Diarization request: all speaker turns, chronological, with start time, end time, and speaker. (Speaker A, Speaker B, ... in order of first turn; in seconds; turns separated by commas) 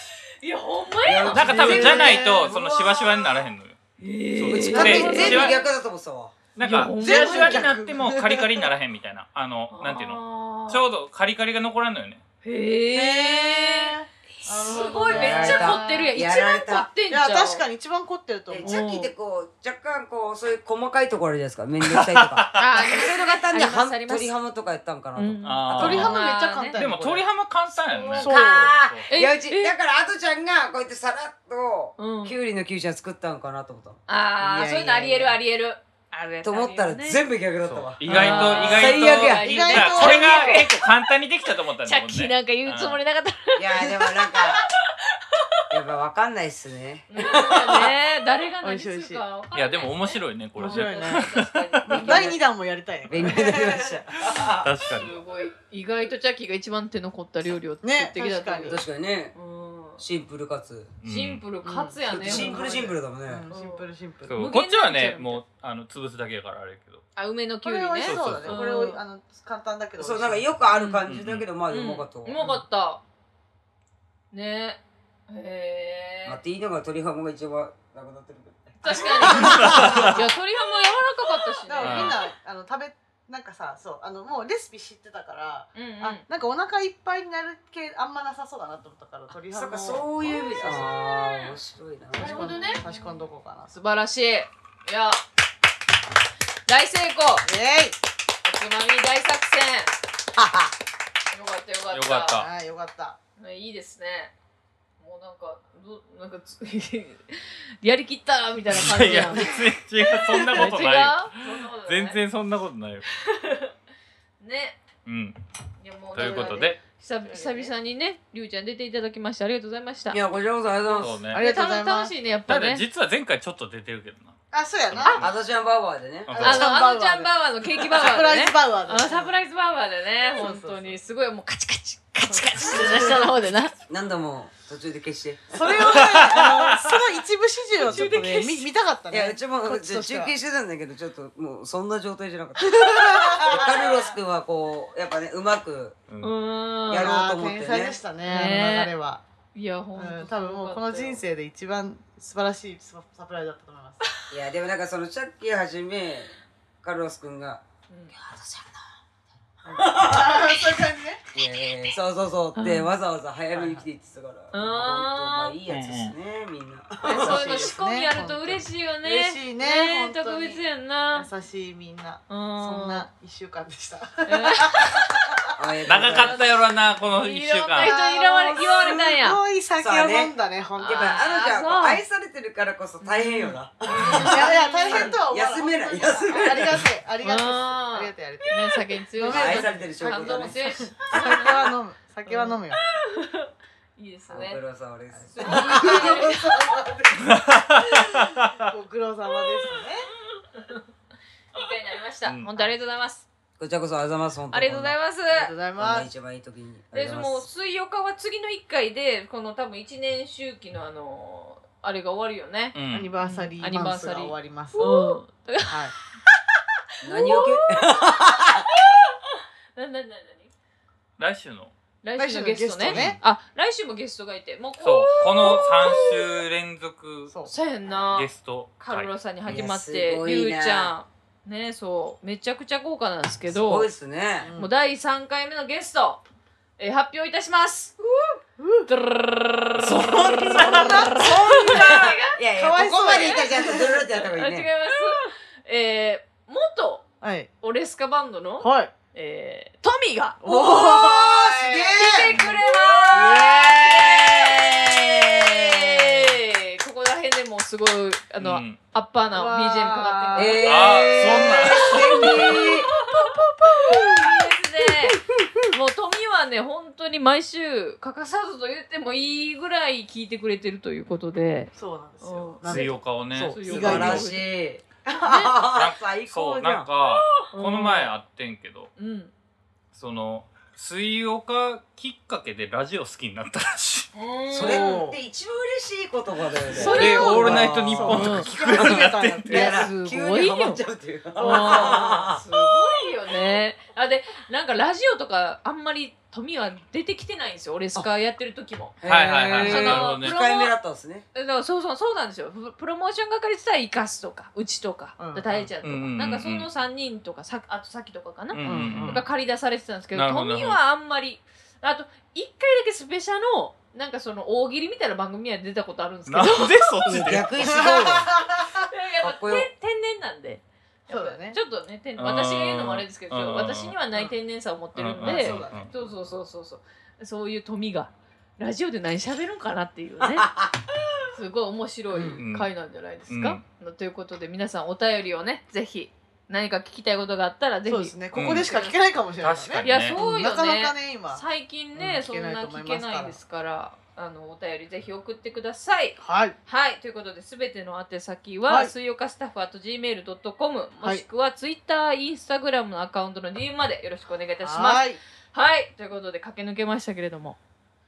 Speaker A: 0.4-2.1, Speaker B: 1.0-3.2, Speaker C: 1.3-2.5, Speaker D: 1.3-3.8, Speaker A: 4.0-5.6, Speaker D: 4.3-5.5, Speaker B: 4.4-6.4, Speaker C: 4.7-5.6, Speaker D: 6.5-12.2, Speaker A: 6.6-7.7, Speaker C: 7.0-8.7, Speaker A: 9.7-10.8, Speaker A: 12.4-17.6, Speaker C: 12.9-16.1, Speaker B: 15.1-16.9, Speaker C: 17.1-18.8, Speaker B: 18.5-26.2, Speaker A: 18.6-19.1, Speaker D: 21.8-22.6, Speaker A: 22.5-24.3, Speaker A: 25.1-26.8, Speaker D: 25.4-26.2, Speaker C: 25.8-27.2, Speaker D: 26.7-29.1, Speaker A: 27.8-29.8, Speaker C: 28.1-28.7, Speaker B: 28.2-34.0, Speaker A: 32.0-32.4, Speaker A: 34.1-37.2, Speaker C: 34.4-35.4, Speaker B: 36.4-39.5, Speaker D: 37.6-43.0, Speaker A: 38.0-40.7, Speaker C: 39.1-40.7, Speaker A: 41.9-45.6, Speaker B: 43.5-44.6, Speaker B: 45.7-47.9, Speaker A: 47.1-52.4, Speaker C: 48.6-49.2, Speaker D: 49.5-51.5, Speaker C: 50.6-51.3, Speaker B: 51.8-52.4, Speaker C: 51.9-53.9, Speaker B: 53.1-54.7, Speaker D: 54.6-55.1, Speaker A: 54.9-58.8, Speaker C: 57.8-58.8, Speaker B: 58.6-59.3, Speaker A: 59.3-60.0, Speaker B: 60.0-60.9, Speaker D: 61.0-61.4, Speaker A: 61.0-62.7, Speaker C: 61.6-64.3, Speaker B: 62.1-63.5, Speaker A: 63.5-65.4, Speaker D: 64.3-67.0, Speaker A: 67.2-69.0, Speaker C: 67.6-70.5, Speaker D: 68.0-68.7, Speaker B: 70.0-72.4, Speaker A: 70.7-71.1, Speaker D: 71.0-71.5, Speaker A: 71.7-73.0, Speaker A: 74.3-76.4, Speaker B: 76.2-80.2, Speaker A: 78.8-82.2, Speaker C: 78.8-80.3, Speaker D: 79.4-80.1, Speaker C: 81.7-90.9, Speaker D: 81.8-82.2, Speaker A: 85.7-86.2, Speaker B: 89.5-92.8, Speaker A: 90.2-91.5, Speaker C: 92.1-93.7, Speaker A: 92.2-93.2, Speaker A: 93.7-95.2, Speaker A: 96.7-97.5, Speaker C: 97.4-98.0, Speaker A: 98.4-99.9, Speaker B: 100.4-100.7, Speaker A: 101.3-102.4, Speaker D: 101.9-102.5, Speaker C: 102.3-103.2, Speaker A: 103.4-104.3, Speaker A: 105.0-109.6, Speaker D: 108.7-113.0, Speaker A: 110.4-112.2, Speaker A: 113.1-113.7, Speaker A: 114.4-114.8, Speaker D: 115.0-115.4, Speaker A: 115.8-120.2, Speaker D: 116.1-116.8, Speaker C: 116.2-116.7, Speaker C: 117.2-117.7, Speaker B: 120.1-121.2, Speaker D: 121.0-121.4, Speaker A: 121.3-122.8, Speaker C: 121.3-122.1, Speaker D: 122.5-124.3, Speaker C: 124.5-125.2, Speaker D: 124.9-125.3, Speaker B: 125.1-126.4, Speaker D: 126.3-126.7, Speaker C: 126.3-129.4, Speaker A: 126.4-133.7, Speaker C: 130.4-130.8, Speaker C: 132.2-133.3, Speaker B: 133.9-136.0, Speaker C: 135.5-140.3, Speaker D: 135.8-137.0, Speaker A: 137.8-138.7, Speaker B: 139.1-146.0, Speaker C: 142.6-144.0, Speaker D: 146.1-146.3, Speaker A: 146.2-147.1, Speaker B: 146.9-148.0, Speaker C: 146.9-149.2, Speaker A: 148.2-148.9, Speaker A: 149.5-151.2, Speaker C: 149.9-154.0, Speaker B: 154.3-157.6, Speaker A: 157.9-158.2, Speaker B: 158.1-158.8, Speaker C: 159.6-161.2, Speaker B: 159.8-160.4, Speaker B: 161.3-167.7, Speaker A: 162.6-162.9, Speaker C: 163.5-163.8, Speaker A: 164.5-165.5, Speaker D: 165.7-166.1, Speaker A: 167.0-171.3, Speaker C: 167.1-175.5, Speaker A: 172.3-173.1, Speaker A: 174.3-175.1, Speaker B: 175.6-176.4, Speaker D: 175.8-177.9, Speaker A: 176.1-179.4, Speaker C: 177.8-181.2, Speaker B: 179.8-180.3, Speaker A: 180.8-182.0, Speaker B: 180.8-186.9, Speaker A: 183.0-185.2, Speaker C: 184.0-192.8, Speaker A: 187.2-191.7, Speaker B: 189.2-191.3, Speaker A: 192.2-194.6, Speaker B: 194.3-196.5, Speaker A: 195.3-196.7, Speaker C: 195.4-197.4, Speaker D: 197.2-198.7, Speaker C: 197.9-200.1, Speaker A: 200.5-200.8, Speaker A: 201.5-203.3, Speaker B: 203.6-204.9, Speaker A: 204.5-205.5, Speaker C: 205.3-206.1, Speaker B: 205.8-207.5, Speaker A: 206.9-215.8, Speaker D: 212.7-213.1, Speaker C: 212.9-215.2, Speaker C: 215.7-215.9, Speaker B: 217.0-218.7, Speaker A: 217.1-220.5, Speaker D: 221.2-221.7, Speaker A: 222.0-226.2, Speaker C: 222.2-223.2, Speaker D: 222.8-223.2, Speaker D: 224.8-227.3, Speaker A: 227.4-233.9, Speaker D: 228.1-229.1, Speaker B: 229.4-230.9, Speaker B: 233.5-234.5, Speaker C: 234.4-234.7, Speaker A: 234.5-236.2, Speaker A: 236.8-237.9, Speaker B: 238.0-238.4, Speaker C: 238.6-238.9, Speaker A: 238.9-242.4, Speaker B: 239.8-244.7, Speaker C: 240.6-241.9, Speaker C: 242.5-244.3, Speaker A: 242.9-247.0, Speaker C: 247.2-247.5, Speaker A: 247.6-265.2, Speaker C: 248.6-248.9, Speaker C: 250.4-252.3, Speaker B: 251.1-252.2, Speaker D: 252.3-252.6, Speaker C: 253.1-254.7, Speaker B: 253.1-254.2, Speaker D: 258.4-258.8, Speaker C: 259.3-260.9, Speaker B: 260.4-262.9, Speaker D: 260.6-262.5, Speaker C: 262.1-262.6, Speaker C: 263.2-265.7, Speaker A: 265.7-274.5, Speaker C: 271.7-274.3, Speaker D: 272.6-274.1, Speaker B: 273.6-276.9, Speaker A: 275.2-275.5, Speaker D: 275.7-278.9, Speaker A: 277.5-278.1, Speaker A: 278.9-279.3, Speaker D: 279.9-284.1, Speaker A: 284.1-285.1, Speaker B: 284.5-292.4, Speaker C: 284.5-285.2, Speaker A: 286.7-288.5, Speaker D: 286.8-289.7, Speaker C: 286.8-289.8, Speaker A: 289.5-290.8, Speaker C: 291.4-292.4, Speaker A: 291.4-300.7, Speaker B: 299.0-301.2, Speaker D: 299.0-300.4, Speaker A: 301.3-316.9, Speaker C: 305.2-305.7, Speaker D: 305.8-306.7, Speaker D: 308.5-309.2, Speaker C: 308.6-309.2, Speaker D: 310.1-310.8, Speaker D: 316.3-317.5, Speaker B: 317.1-318.3, Speaker C: 317.6-318.9, Speaker A: 318.9-330.5, Speaker B: 319.2-319.7, Speaker C: 321.1-321.6, Speaker D: 322.2-323.9, Speaker D: 324.9-325.9, Speaker C: 325.2-326.1, Speaker B: 330.2-330.7, Speaker A: 331.3-339.0, Speaker C: 332.1-332.4, Speaker D: 332.4-332.7, Speaker D: 333.3-333.6, Speaker C: 337.9-341.4, Speaker D: 338.3-338.7, Speaker D: 339.4-340.2, Speaker A: 339.8-357.6, Speaker C: 341.9-343.4, Speaker C: 346.2-346.5, Speaker C: 348.7-348.9, Speaker C: 354.6-355.2